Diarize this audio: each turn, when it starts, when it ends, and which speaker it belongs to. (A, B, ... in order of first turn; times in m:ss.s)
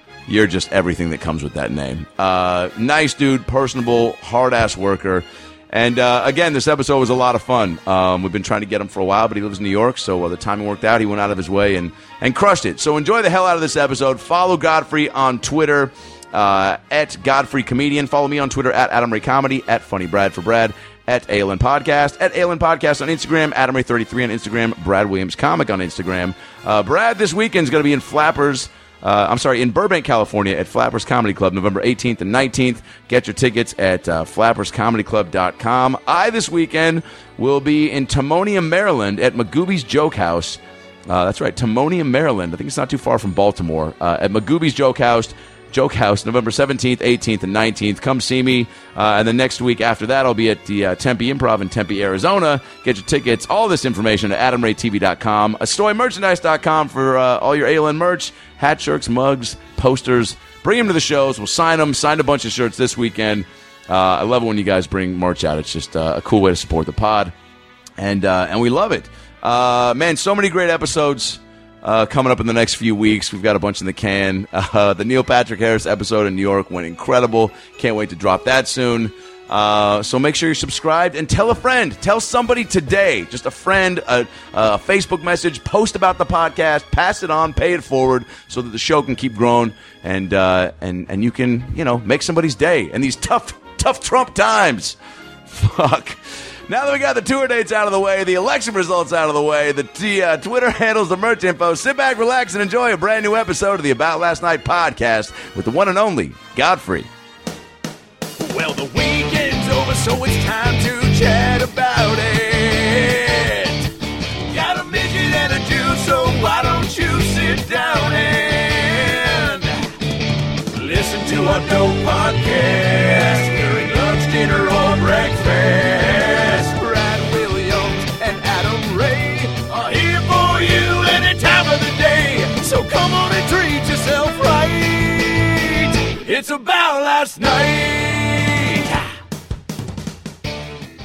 0:00.3-1:07.3 A
1:08.0-1:35.0 A
1:35.5-1:47.1 A
1:48.4-1:53.9 A
1:54.5-1:59.9 A
2:00.6-2:19.1 A